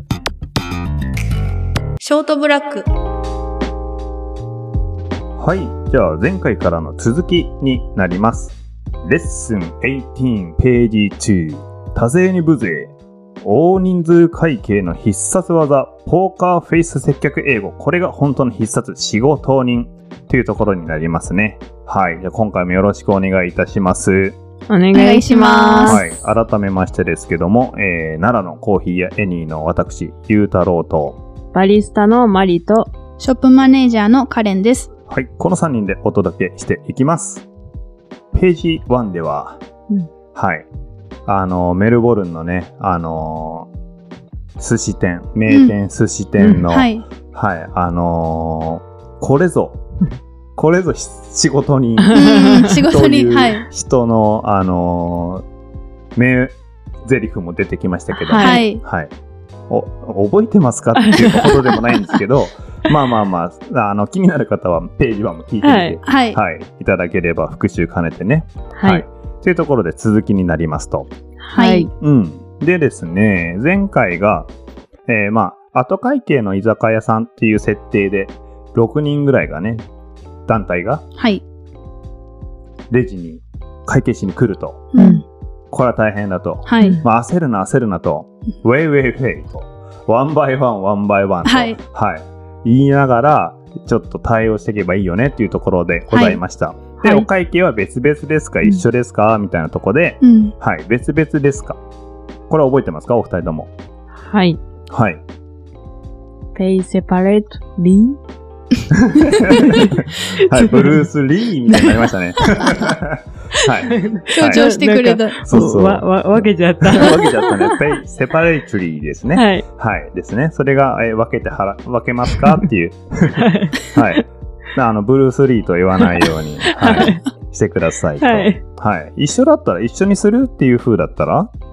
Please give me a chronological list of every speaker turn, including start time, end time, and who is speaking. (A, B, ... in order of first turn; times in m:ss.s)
0:02.0-0:02.9 A
0:05.4-0:24.4 B
0:24.7-0:26.0 C
0:24.9-0:26.0 A
0:25.8-0:31.2 B
0:31.5-0:32.9 C
0:33.2-0:34.9 A
0:35.1-0:37.4 B
0:38.3-0:39.6 B
0:40.3-0:40.7 B
0:41.3-0:43.7 B
0:44.6-0:49.8 B
0:45.5-0:45.7 A
0:46.7-0:47.0 A
0:50.6-0:55.4 B
0:52.0-0:52.8 C
0:52.1-0:53.6 A
0:56.1-0:59.1 B
0:58.1-0:58.7 C
0:58.4-0:58.8 A
0:59.7-1:11.1 B
1:01.0-1:02.0 C
1:05.6-1:06.0 C
1:06.0-1:06.4 A
1:08.8-1:09.0 C
1:11.4-1:11.9 C
1:11.5-1:11.9 A
1:12.0-1:14.5 B
1:15.1-1:19.8 B
1:20.5-1:21.0 B
1:21.2-1:21.4 A
1:22.9-1:24.9 B
1:24.9-1:25.2 A
1:25.0-1:25.2 C
1:25.7-1:41.8 B
1:26.6-1:27.0 A
1:31.4-1:31.8 A
1:36.1-1:36.4 A
1:37.0-1:37.3 C
1:40.2-1:40.5 A
1:42.5-1:43.7 B
1:44.2-1:44.6 C
1:44.9-1:45.2 B
1:46.5-1:48.2 C
1:48.9-1:54.6 B
1:49.6-1:50.0 C
1:50.5-1:51.0 C
1:53.9-1:57.8 C
1:54.3-1:55.7 A
1:55.4-2:11.5 B
1:59.3-1:59.6 C
2:03.4-2:04.1 C
2:06.0-2:07.2 C
2:08.2-2:08.6 C